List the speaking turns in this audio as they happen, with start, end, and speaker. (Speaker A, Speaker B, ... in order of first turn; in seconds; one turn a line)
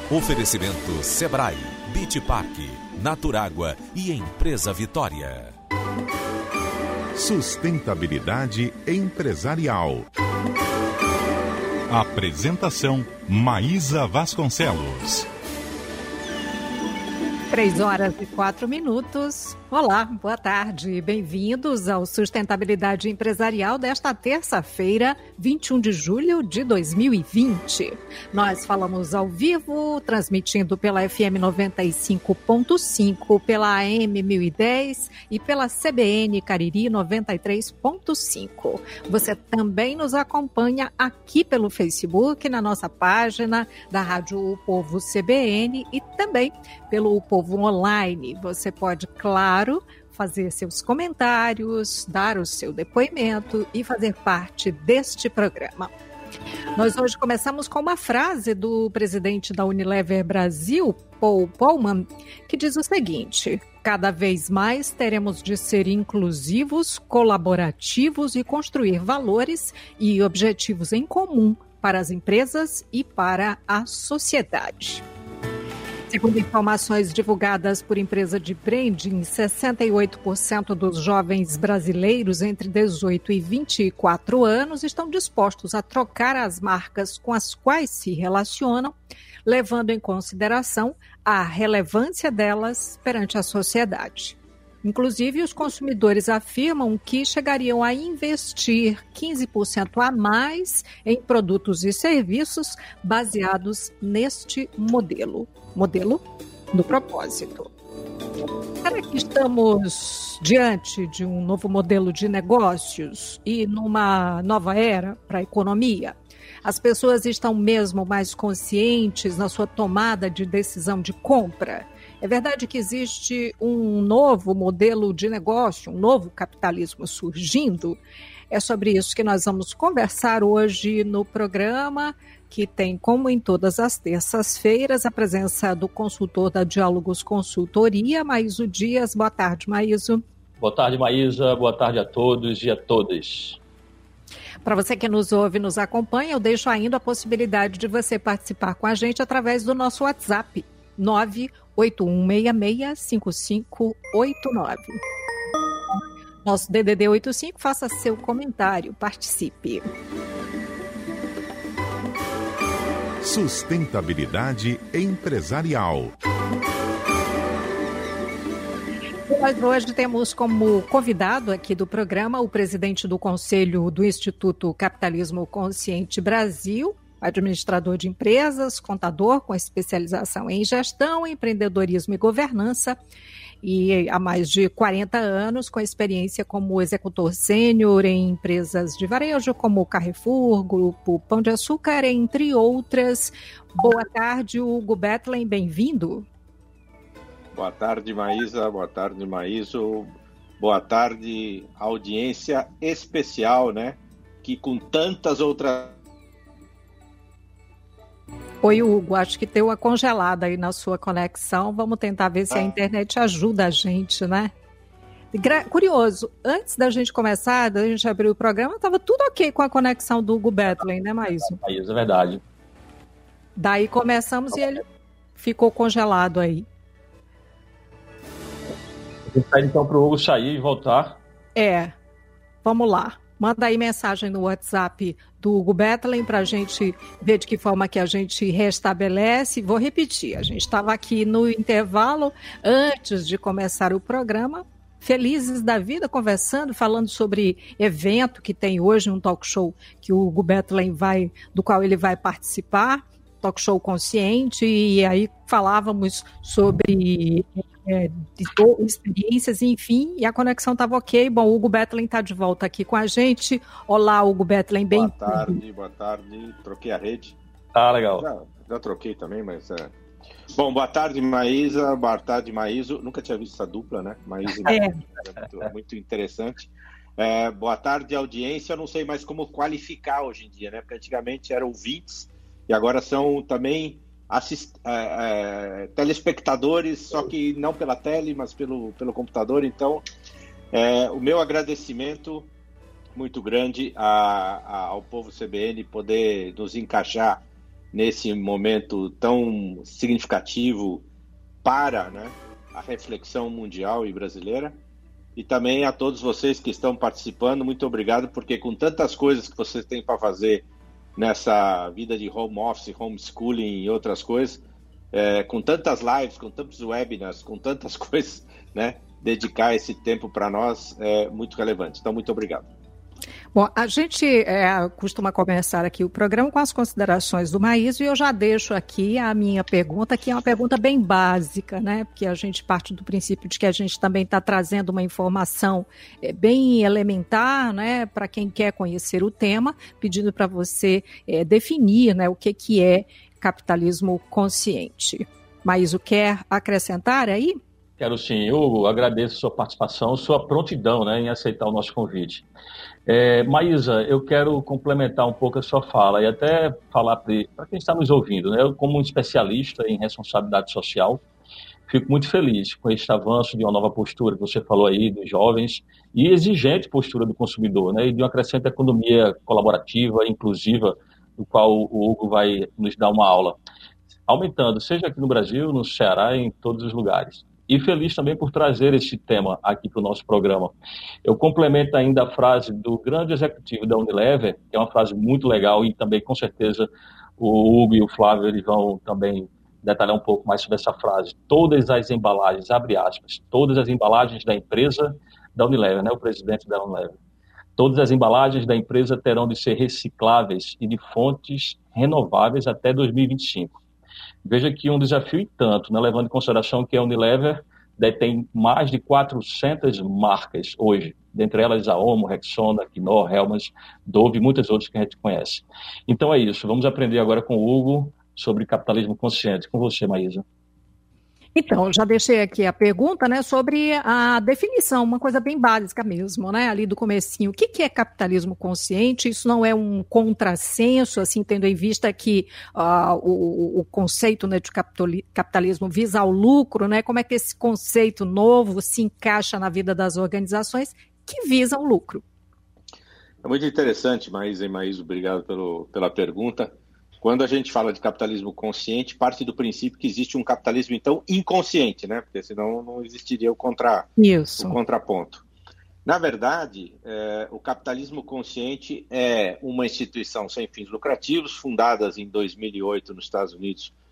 Speaker A: 0.1-5.5
Speaker B: 7.2-10.1
Speaker B: 11.9-15.3
Speaker C: 17.5-55.9
Speaker C: 56.8-75.0
Speaker C: 76.1-88.9
Speaker C: 89.5-107.7
Speaker C: 108.8-128.0
Speaker C: 128.5-140.2
Speaker D: 140.6-143.6
Speaker C: 144.7-155.0
Speaker C: 156.4-159.9
Speaker B: 163.2-166.2
Speaker C: 169.3-183.0
Speaker C: 183.6-196.3
Speaker E: 197.5-206.0
Speaker C: 208.6-214.5
Speaker E: 212.5-212.8
Speaker C: 215.3-221.6
Speaker D: 221.4-222.4
Speaker C: 223.6-224.8
Speaker C: 225.4-226.7
Speaker D: 229.3-231.2
Speaker C: 231.6-231.9
Speaker C: 232.6-265.6
Speaker E: 264.9-267.4
Speaker D: 267.7-268.3
Speaker E: 268.2-269.9
Speaker E: 270.5-290.0
Speaker C: 274.6-275.0
Speaker E: 290.7-292.5
Speaker E: 293.1-301.1
Speaker E: 301.6-304.8
Speaker E: 305.4-310.6
Speaker E: 311.2-314.6
Speaker E: 315.1-322.7
Speaker C: 323.5-347.6
Speaker D: 348.0-352.4
Speaker D: 353.1-361.2
Speaker D: 361.9-373.6
Speaker D: 374.3-380.7
Speaker D: 381.2-386.9
Speaker D: 387.4-397.2
Speaker D: 397.8-403.8
Speaker D: 404.4-420.4
Speaker C: 421.6-442.2
Speaker E: 443.4-455.4
Speaker C: 454.2-454.8
Speaker E: 456.1-463.9